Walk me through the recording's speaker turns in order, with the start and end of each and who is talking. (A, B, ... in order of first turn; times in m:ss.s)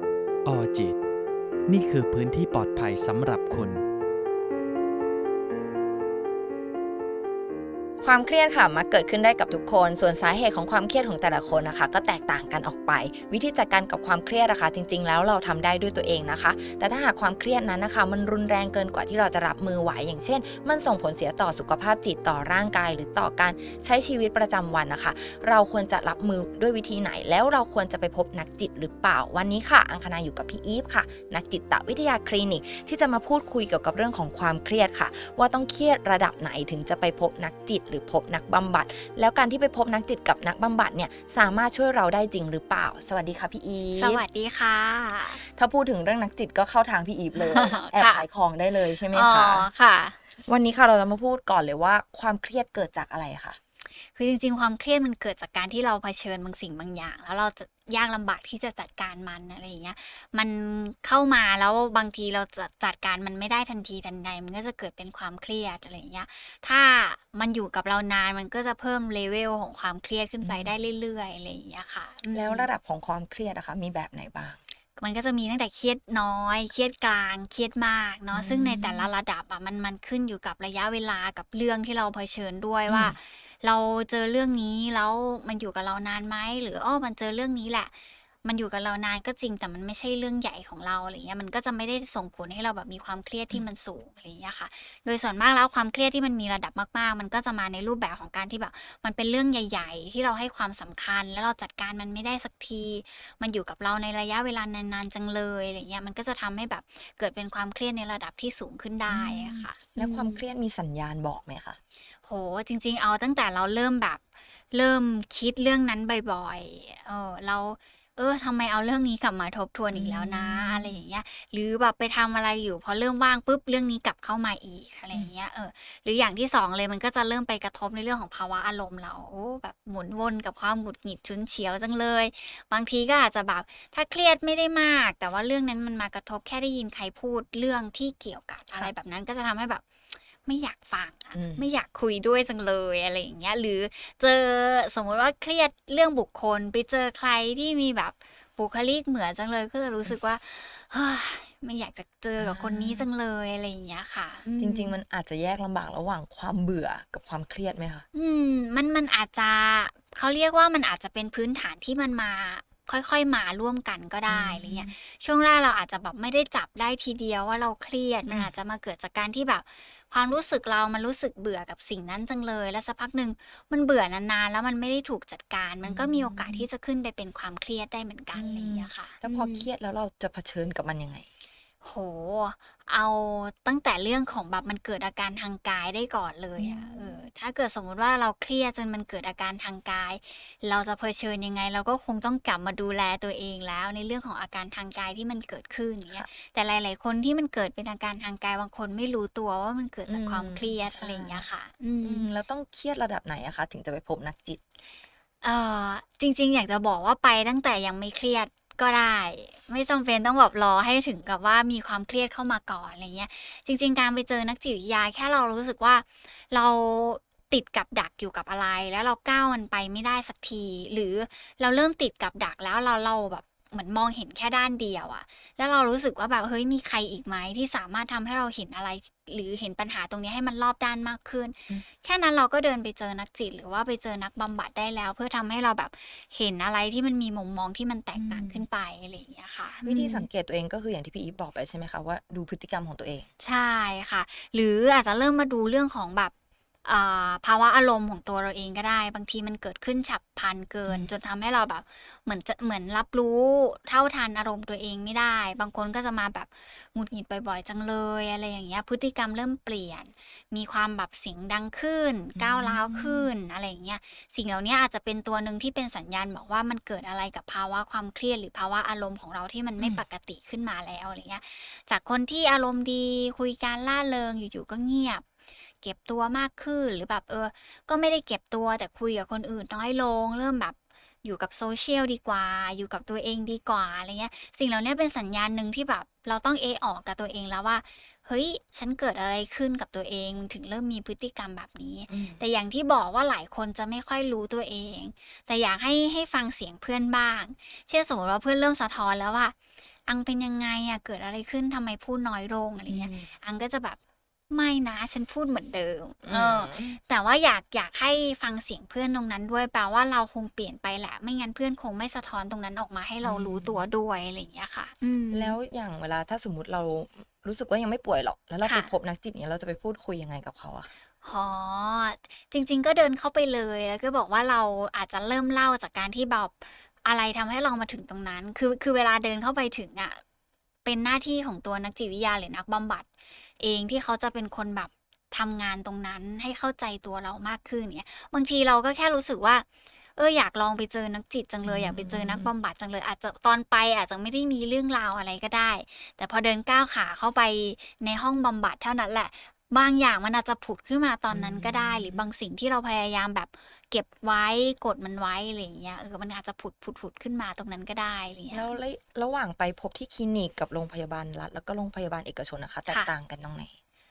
0:00.4-0:01.0 A
0:01.7-0:03.8 A
0:08.0-0:44.2 B
0:43.9-0:45.4 C
0:45.4-0:49.7 B
0:47.3-0:48.3 C
0:48.8-0:50.3 C
0:50.4-0:53.6 B
0:53.9-1:12.7 C
1:10.4-1:10.7 B
1:12.3-1:14.6 B
1:15.0-1:50.4 C
1:18.3-1:19.1 B
1:22.9-1:23.2 B
1:49.1-1:51.8 B
1:52.2-2:35.0 C
1:59.9-2:01.0 B
2:21.3-2:21.7 B
2:32.4-2:33.1 B
2:34.6-2:38.0 B
2:38.1-2:59.7 C
2:44.3-2:44.9 B
2:48.2-2:48.5 B
2:55.8-2:56.7 B
2:58.3-3:01.3 B
3:01.8-3:22.3 C
3:06.6-3:07.2 B
3:20.1-3:21.4 B
3:22.0-3:24.6 B
3:25.4-4:00.3 C
3:58.2-3:58.7 B
3:59.8-4:03.3 B
4:03.4-4:06.3 C
4:06.8-4:35.3 C
4:10.9-4:11.1 B
4:22.4-4:23.3 B
4:29.8-4:30.0 B
4:35.8-4:59.6 C
4:52.1-4:52.4 B
5:00.1-5:04.0 C
5:02.9-5:03.4 B
5:04.5-5:15.6 C
5:06.2-5:07.0 B
5:13.2-5:13.8 B
5:15.3-5:20.9 B
5:18.6-5:18.9 C
5:21.2-5:30.2 C
5:30.8-5:39.6 C
5:40.2-5:58.8 C
5:41.6-5:42.5 B
5:51.3-5:52.2 B
5:58.5-6:03.8 B